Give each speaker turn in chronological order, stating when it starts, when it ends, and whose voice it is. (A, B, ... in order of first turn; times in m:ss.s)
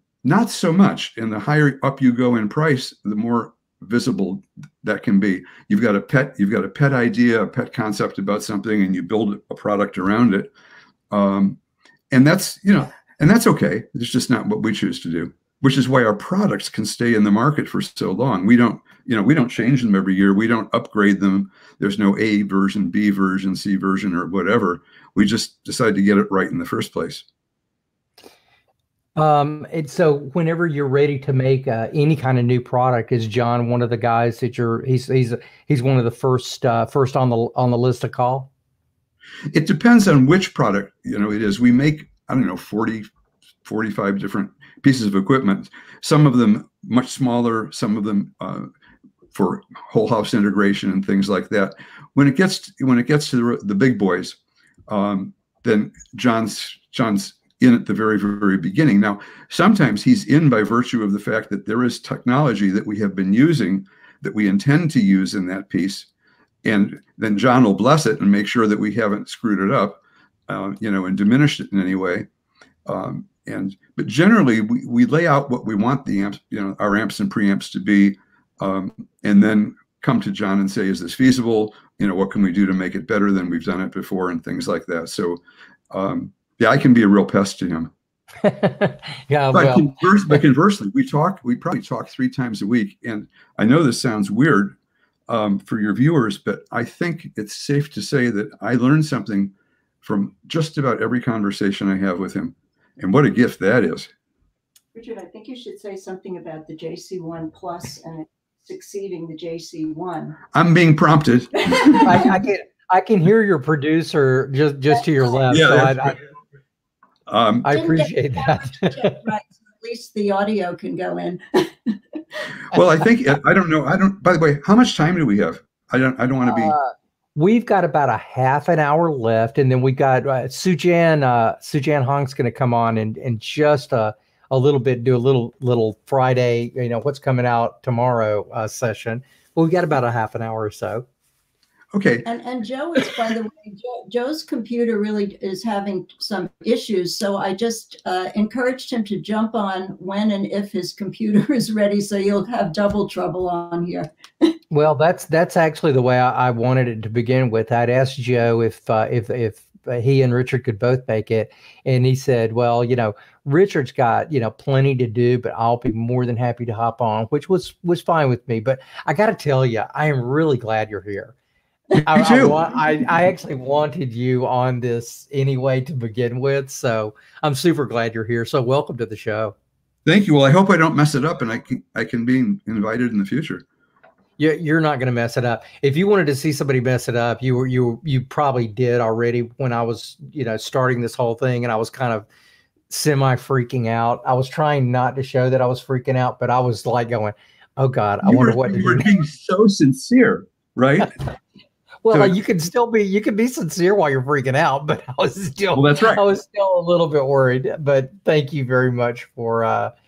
0:00.2-0:10.5 A
0:11.1-0:11.6 A
0:12.1-0:27.2 A
0:29.2-0:38.5 B
0:39.5-0:43.1 A
0:43.6-0:48.7 A
0:49.3-1:06.1 A
1:06.6-1:12.3 A
1:12.9-1:25.4 A
1:25.9-1:27.9 A
1:28.4-1:30.4 B
1:29.5-1:34.8 A
1:35.3-1:44.1 A
1:44.9-1:50.4 C
1:50.5-1:52.2 A
1:51.6-1:52.2 C
1:52.0-1:56.2 B
1:55.5-1:56.2 A
1:57.3-1:57.7 A
1:57.6-1:59.2 B
1:57.7-2:02.0 C
2:02.7-2:06.8 A
2:06.4-2:21.0 B
2:21.9-2:22.2 A
2:22.2-2:34.1 C
2:34.7-2:51.4 B
2:52.0-2:59.6 B
2:52.1-2:53.0 A
3:00.1-3:03.6 A
3:04.4-3:12.3 B
3:12.9-3:19.1 B
3:18.2-3:21.2 A
3:22.0-3:29.9 B
3:25.8-3:26.3 A